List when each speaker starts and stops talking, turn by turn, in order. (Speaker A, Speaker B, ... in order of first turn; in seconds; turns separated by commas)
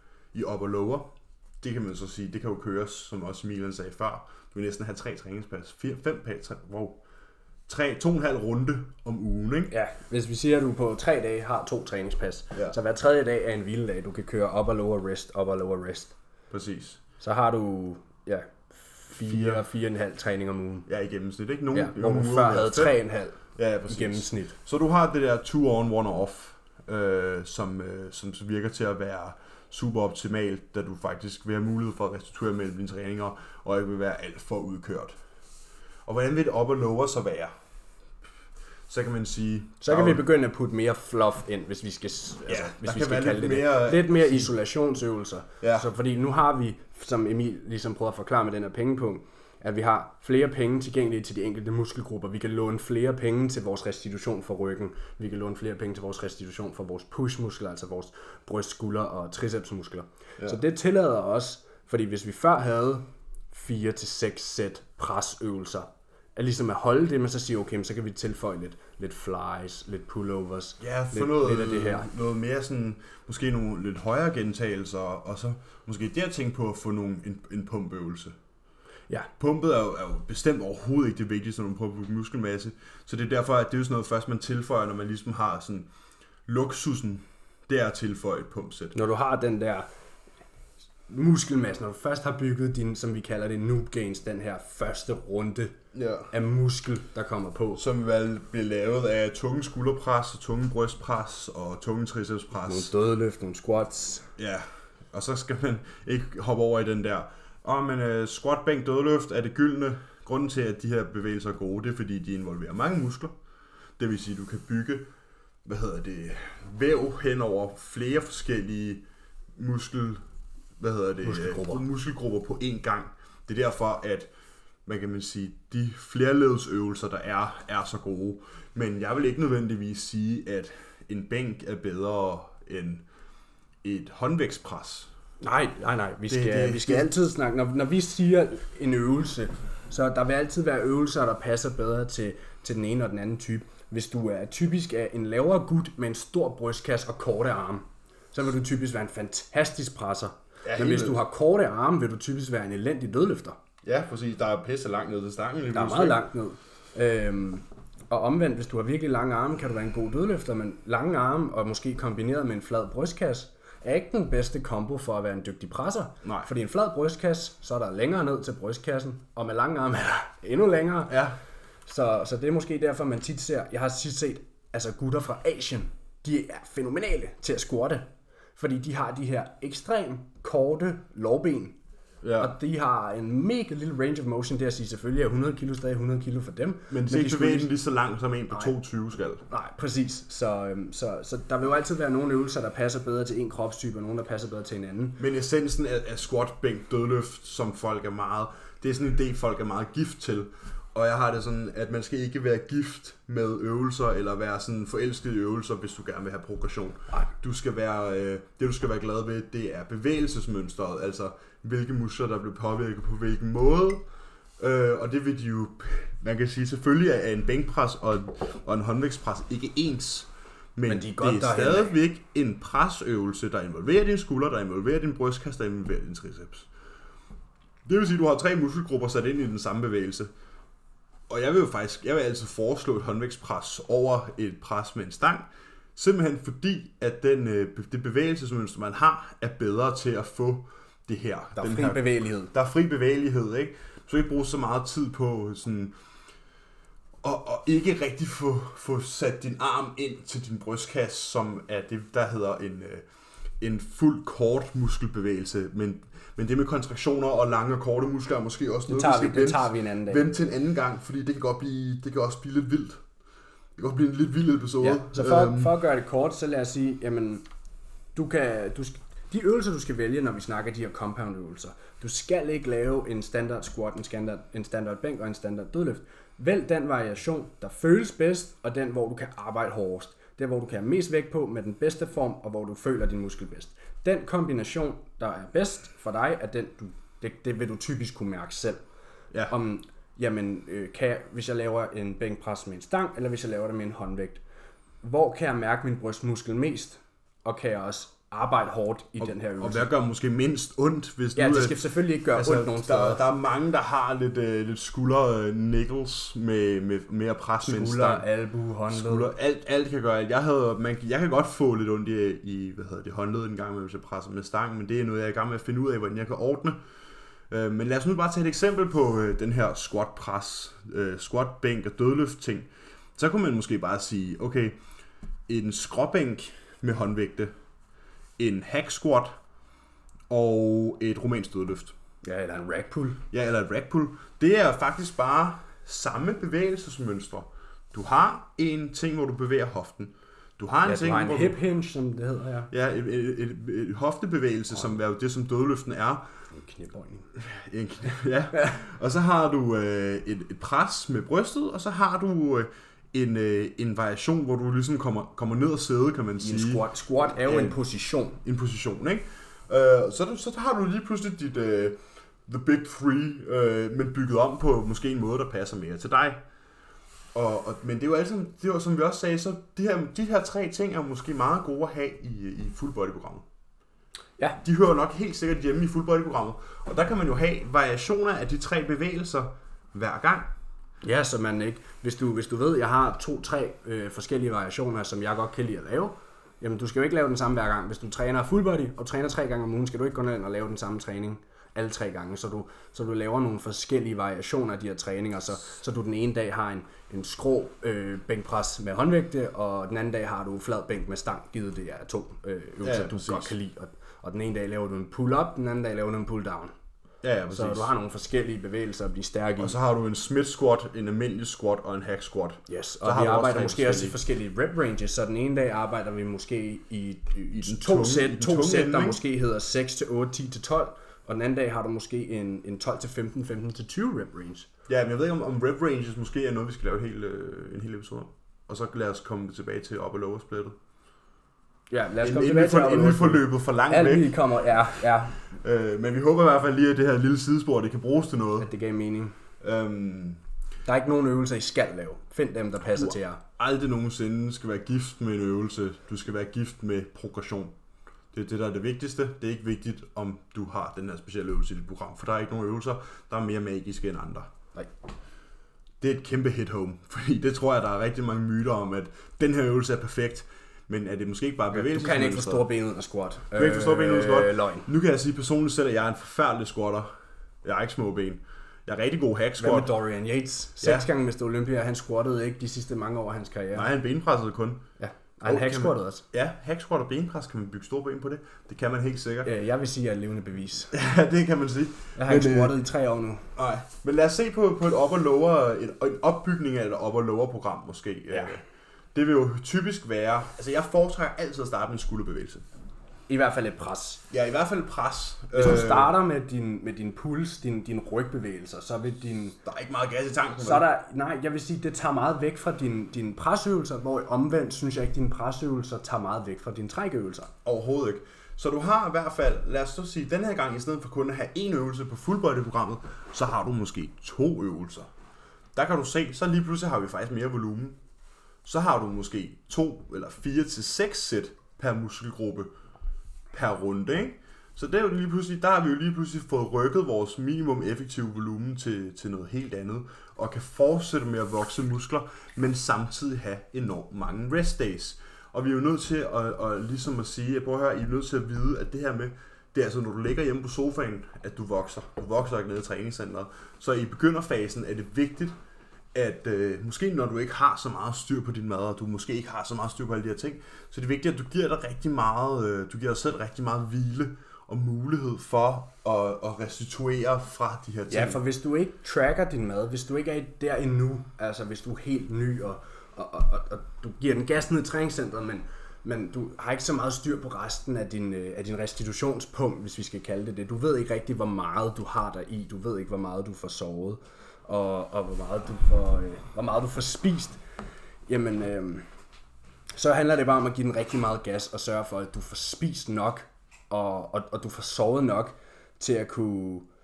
Speaker A: 0.3-7.0, Speaker A: 7.7-9.7, Speaker B: 9.7-16.1, Speaker A: 16.5-17.0, Speaker B: 17.2-20.9, Speaker A: 19.2-19.6, Speaker A: 20.9-23.0, Speaker B: 21.7-24.6, Speaker A: 23.6-35.2, Speaker A: 36.1-37.5, Speaker A: 38.9-40.2, Speaker B: 39.8-72.1, Speaker A: 42.5-44.5, Speaker A: 45.6-45.9, Speaker A: 70.8-78.3, Speaker A: 79.4-85.9, Speaker A: 86.5-89.0, Speaker B: 88.9-89.9, Speaker B: 91.1-95.8, Speaker A: 95.9-96.3, Speaker B: 96.3-97.8, Speaker A: 97.8-102.9, Speaker B: 102.7-104.3, Speaker A: 104.4-113.3, Speaker A: 114.0-115.1, Speaker A: 115.7-119.0, Speaker A: 119.6-120.2, Speaker A: 120.8-124.3, Speaker B: 121.2-121.8, Speaker A: 124.9-133.0, Speaker A: 133.8-135.1, Speaker B: 135.4-153.6, Speaker A: 136.3-137.1, Speaker A: 150.6-151.2, Speaker A: 153.8-156.2, Speaker B: 155.7-171.2, Speaker A: 166.2-166.5, Speaker A: 171.1-171.4, Speaker B: 171.9-181.8, Speaker A: 182.2-182.5, Speaker B: 182.4-187.7, Speaker A: 186.9-189.5, Speaker B: 189.5-195.2, Speaker A: 195.2-214.0, Speaker A: 214.6-226.7, Speaker B: 220.9-222.0, Speaker A: 227.9-230.3, Speaker A: 231.3-245.9, Speaker B: 241.6-242.5, Speaker A: 247.2-253.1, Speaker A: 253.6-263.0, Speaker B: 258.9-260.4, Speaker A: 263.8-265.7, Speaker B: 264.8-267.4, Speaker B: 268.1-288.8, Speaker B: 289.5-294.4, Speaker B: 295.0-299.9, Speaker A: 299.2-301.8, Speaker B: 301.4-303.2, Speaker A: 302.3-308.2, Speaker B: 307.6-309.3, Speaker A: 308.9-316.8, Speaker A: 317.5-324.8, Speaker A: 325.5-327.5, Speaker A: 328.4-329.4, Speaker A: 330.3-331.9, Speaker B: 332.2-333.2, Speaker A: 333.3-341.6, Speaker B: 340.9-342.7, Speaker A: 342.7-346.3, Speaker B: 346.5-347.3, Speaker A: 347.4-356.9, Speaker B: 356.4-358.4, Speaker A: 357.4-357.8, Speaker A: 358.4-366.4, Speaker A: 367.4-373.4, Speaker A: 374.6-380.5, Speaker B: 381.0-406.7, Speaker A: 402.8-403.5, Speaker A: 407.2-407.9, Speaker B: 407.5-409.8, Speaker A: 409.6-414.1, Speaker B: 412.7-424.7, Speaker A: 417.5-419.2, Speaker A: 424.9-430.8, Speaker B: 431.9-435.4, Speaker A: 432.2-434.4, Speaker A: 435.5-438.7, Speaker B: 438.6-439.4, Speaker A: 439.6-440.4, Speaker B: 440.9-443.4, Speaker A: 443.0-447.7, Speaker A: 448.3-454.5, Speaker A: 456.0-462.7, Speaker B: 461.7-464.9, Speaker A: 463.5-467.1, Speaker A: 467.6-469.9, Speaker B: 469.6-473.9, Speaker A: 473.8-474.9, Speaker B: 475.0-476.2, Speaker A: 475.4-479.5, Speaker B: 479.4-480.9, Speaker A: 480.9-482.8, Speaker B: 482.2-483.5, Speaker A: 483.6-492.6, Speaker B: 488.3-488.6, Speaker B: 493.3-494.2, Speaker A: 494.3-496.1, Speaker B: 495.5-499.6, Speaker A: 499.6-500.9, Speaker B: 500.6-507.5, Speaker A: 507.6-515.1, Speaker A: 515.8-518.0, Speaker A: 518.6-522.7, Speaker A: 523.5-545.5, Speaker A: 546.1-558.4, Speaker B: 558.1-577.6, Speaker B: 578.3-579.1, Speaker B: 579.9-586.9